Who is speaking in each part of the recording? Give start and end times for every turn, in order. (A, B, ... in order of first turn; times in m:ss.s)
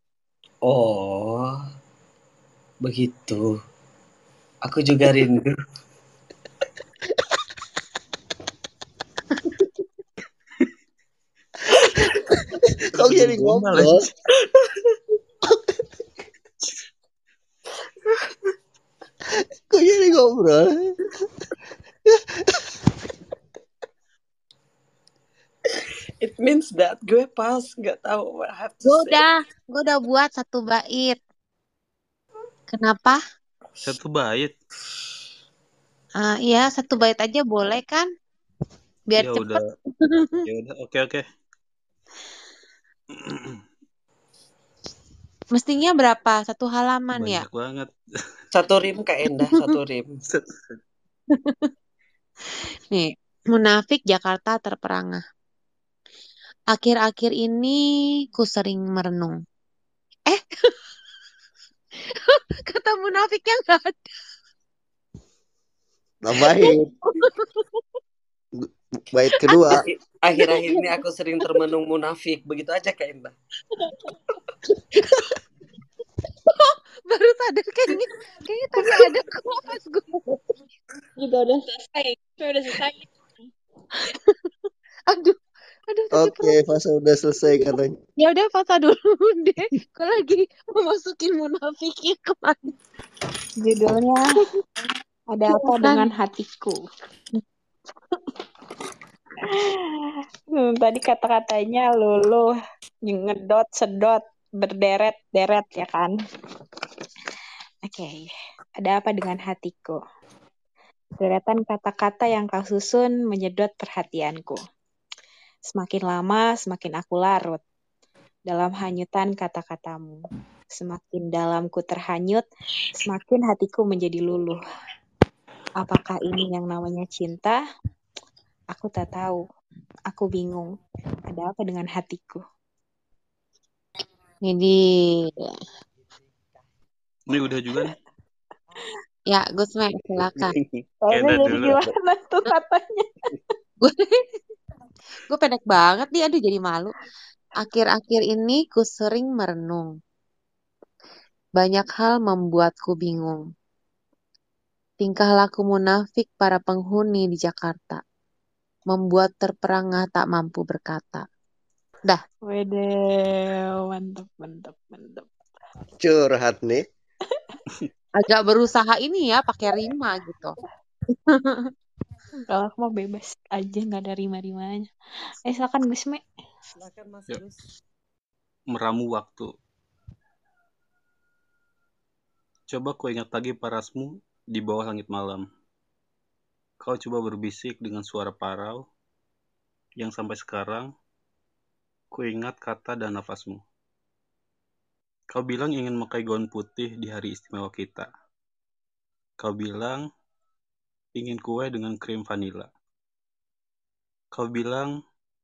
0:00.7-0:01.6 A
0:02.8-0:03.5 A
0:04.6-0:05.6 A
0:13.0-0:14.0 B
0:13.0-0:14.0 C
0:19.7-0:21.0 C
0:22.1-0:22.6 C
0:26.2-0:29.2 A
0:28.8-0:31.2 D
0:32.7-0:33.2 D
0:33.8-0:34.5 B
0:36.2-0:38.1 D
0:39.1-0:40.4 D
0:39.2-0:39.6 B
0:40.4-0:41.2 B
0:43.2-0:43.6 B
0:45.6-0:47.4 D
0:47.2-0:47.9 B
0:48.5-0:50.1 A
0:49.3-0:49.7 D
0:50.3-0:50.8 B
0:51.3-0:51.7 D
0:52.9-0:55.2 D
0:56.7-0:57.8 D
0:58.3-0:59.4 D
1:00.3-1:00.7 D
1:02.1-1:04.1 D
1:06.2-1:06.9 C
1:06.4-1:07.6 D
1:08.6-1:09.8 C
1:09.4-1:09.7 D
1:09.8-1:13.3 A
1:10.4-1:11.0 D
1:16.5-1:20.5 D
1:21.2-1:23.1 E
1:25.1-1:26.6 D
1:26.1-1:28.0 C
1:27.5-1:32.7 D
1:33.6-1:34.2 E
1:35.3-1:36.8 E
1:35.5-1:36.1 D
1:39.5-1:42.5 E
1:43.0-1:46.1 E
1:47.8-1:50.0 E
1:51.2-1:54.6 E
1:55.7-1:57.6 E
1:58.5-2:00.2 E
2:00.8-2:02.4 E
2:03.0-2:04.6 E
2:05.8-2:07.6 E
2:08.8-2:09.4 E
2:10.1-2:10.8 E
2:11.3-2:12.4 E
2:14.4-2:15.6 D
2:17.3-2:17.9 B
2:19.3-2:20.6 D
2:20.4-2:21.9 B
2:21.0-2:23.1 E
2:23.8-2:24.2 D
2:25.3-2:26.9 D
2:27.6-2:29.9 D
2:31.6-2:33.4 D
2:35.0-2:38.0 D
2:38.9-2:41.3 D
2:42.5-2:45.3 E
2:46.0-2:46.8 C
2:48.2-2:50.6 D
2:51.1-2:51.7 D
2:52.5-2:54.9 E
2:55.5-2:56.2 E
2:56.8-2:57.6 A
2:58.7-2:59.5 B
3:02.7-3:05.5 B
3:06.8-3:08.8 B
3:10.0-3:10.9 B
3:12.1-3:13.6 B
3:15.3-3:18.1 B
3:19.4-3:20.0 B
3:21.2-3:22.7 B
3:24.3-3:24.9 B